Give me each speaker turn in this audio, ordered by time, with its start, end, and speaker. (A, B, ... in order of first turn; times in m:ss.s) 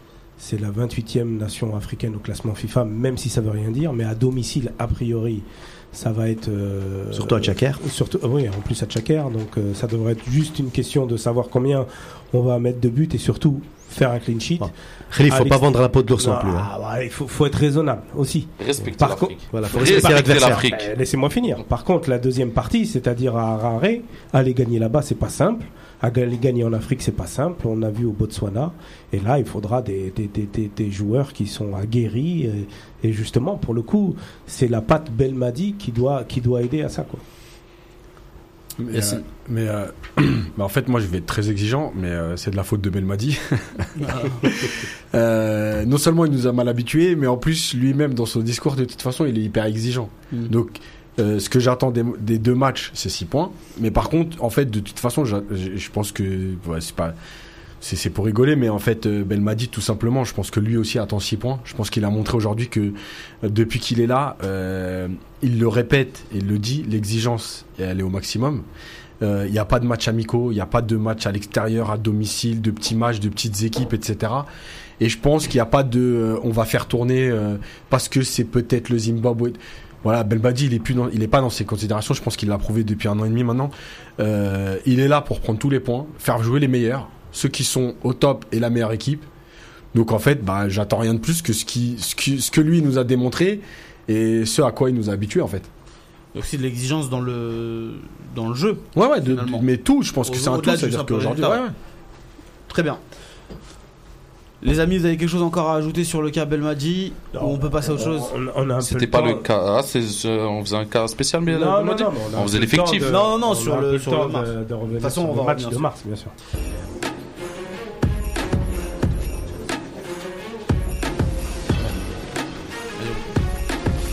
0:00.4-0:14.7 A
0:07.1-0:07.8 B
0:14.6-0:16.7 B
0:15.3-0:15.6 A
0:16.2-0:37.2 A
0:18.6-0:20.9 C
0:19.5-0:20.6 B
0:38.8-0:57.1 D
0:38.9-0:39.2 E
0:44.0-0:44.5 E
0:57.8-1:08.6 D
1:09.2-1:14.5 D
1:15.0-1:29.3 D
1:29.9-1:35.7 D
1:36.3-1:39.6 E
1:38.9-1:41.7 D
1:40.2-1:41.6 E
1:42.7-1:43.0 E
1:44.6-1:48.3 E
1:47.3-1:49.4 A
1:48.8-1:53.2 C
1:51.5-1:56.3 A
1:53.0-1:55.9 E
2:03.0-2:03.2 E